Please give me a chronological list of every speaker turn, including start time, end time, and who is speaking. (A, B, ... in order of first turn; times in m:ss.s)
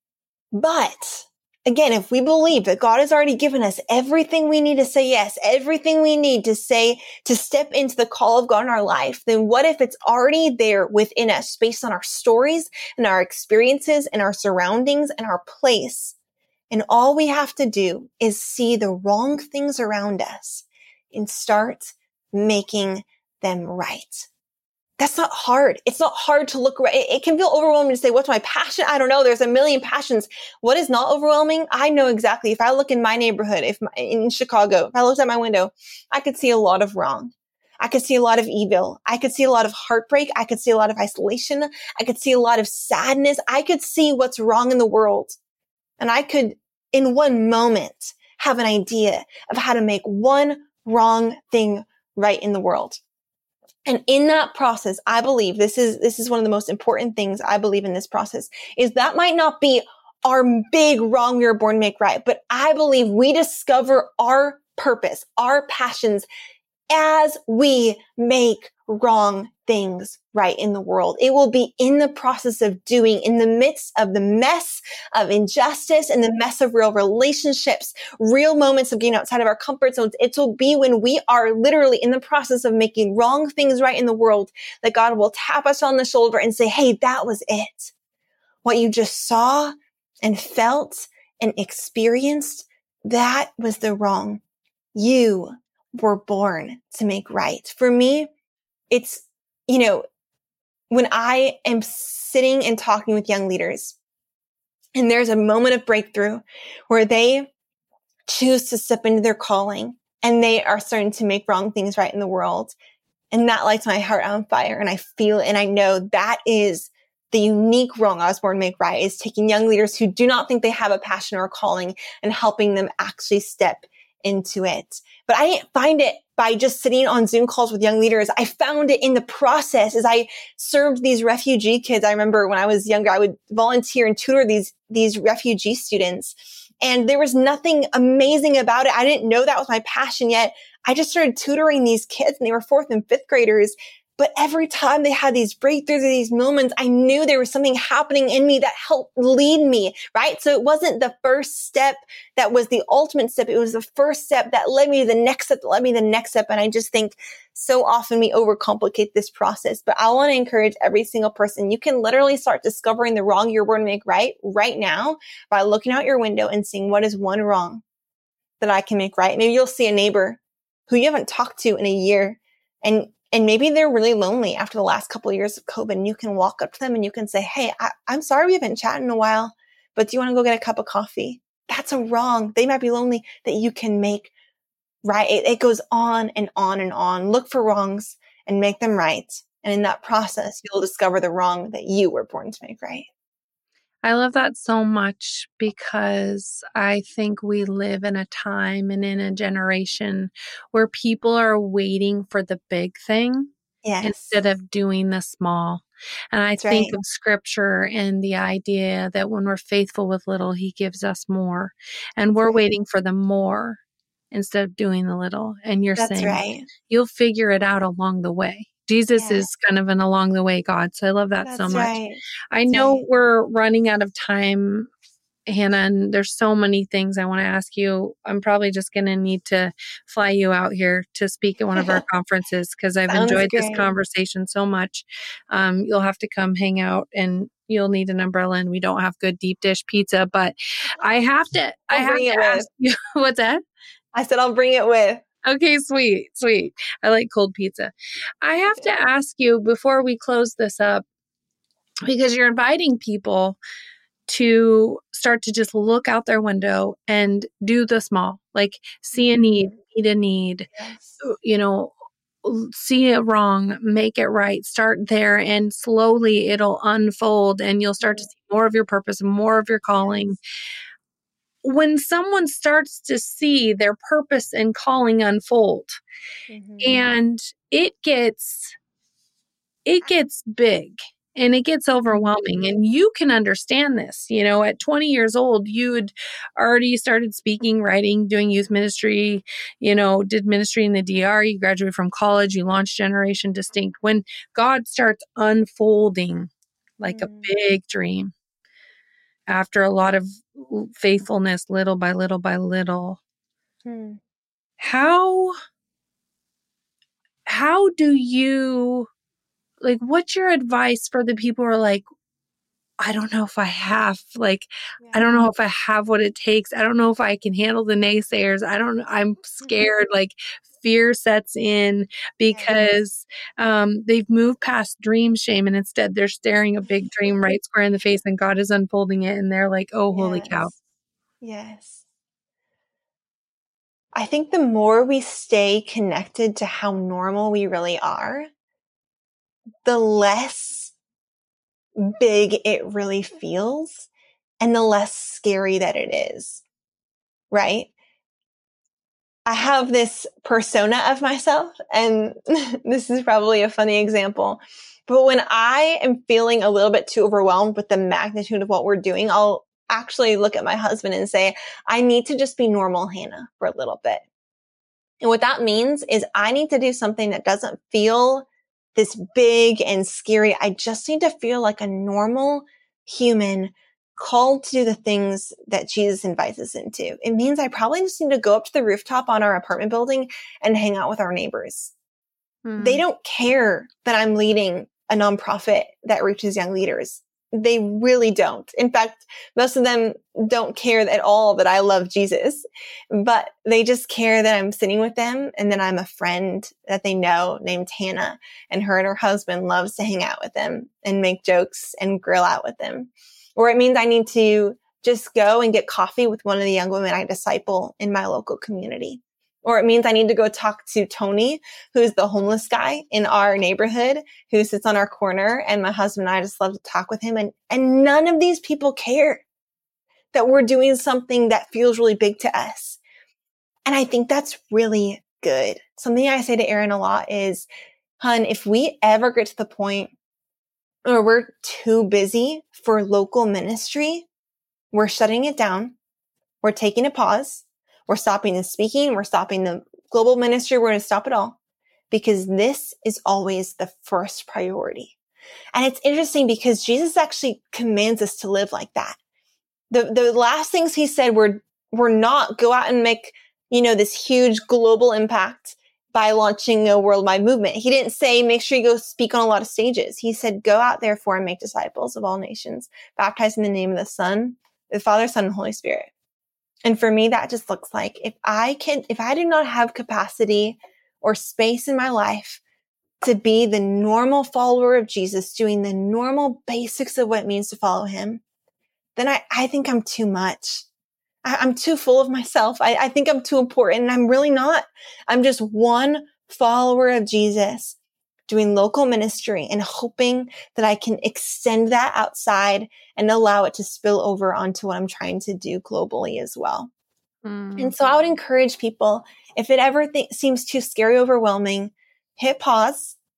0:00.6-0:16.2 A
0:16.7-0:24.3 A
0:25.0-0:45.4 A
0:46.0-0:53.0 A
0:53.9-1:06.3 A
1:06.9-1:27.9 A
1:28.6-1:34.4 A
1:35.0-1:38.3 A
1:38.9-1:40.0 A
1:40.9-1:44.0 A
1:45.0-1:47.5 A
1:48.3-1:52.8 A
1:53.3-2:47.8 A
2:48.6-3:04.3 A
3:05.0-3:13.1 A
3:14.0-3:23.5 B
3:23.8-3:24.4 A
3:24.0-3:33.8 B
3:26.6-3:27.0 A
3:34.3-3:42.0 B
3:36.0-3:36.7 A
3:39.2-3:39.5 A
3:41.4-3:43.0 A
3:42.5-3:44.9 B
3:45.5-4:03.6 B
3:51.8-3:52.0 A
3:53.1-3:53.9 A
4:01.9-4:02.7 A
4:04.1-4:05.2 A
4:05.5-4:11.0 B
4:12.1-4:13.6 B
4:14.3-4:20.7 B
4:19.2-4:19.7 A
4:20.8-4:21.2 A
4:21.2-4:30.4 B
4:30.0-4:30.3 A
4:31.6-4:36.0 B
4:36.5-4:37.1 A
4:36.8-4:38.8 B
4:39.9-4:58.3 B
4:57.1-4:57.5 A
4:59.5-5:03.2 B
5:03.8-5:04.2 A
5:04.8-5:05.6 B
5:07.5-5:09.1 B
5:09.8-5:12.0 B
5:13.0-5:30.7 B
5:15.0-5:15.5 A
5:22.5-5:23.0 A
5:30.1-5:30.7 A
5:31.4-5:32.0 A
5:34.2-5:38.5 A
5:39.8-5:40.9 A
5:42.0-5:44.1 A
5:44.6-5:46.6 A
5:47.5-5:47.9 A
5:49.5-6:04.2 A
6:05.2-6:21.9 A
6:22.7-6:23.0 B
6:22.8-6:59.4 A
7:00.3-7:03.0 A
7:03.9-7:07.7 A
7:08.2-7:10.1 A
7:11.1-7:14.3 A
7:14.9-7:16.0 A
7:16.6-7:21.6 A
7:22.1-7:25.2 A
7:25.7-7:29.2 A
7:29.9-7:46.1 A
7:46.8-7:52.6 A
7:53.2-7:58.4 A
7:59.2-8:00.9 A
8:01.4-8:08.0 A
8:08.5-8:16.9 A
8:17.4-8:17.9 B
8:17.8-8:23.2 A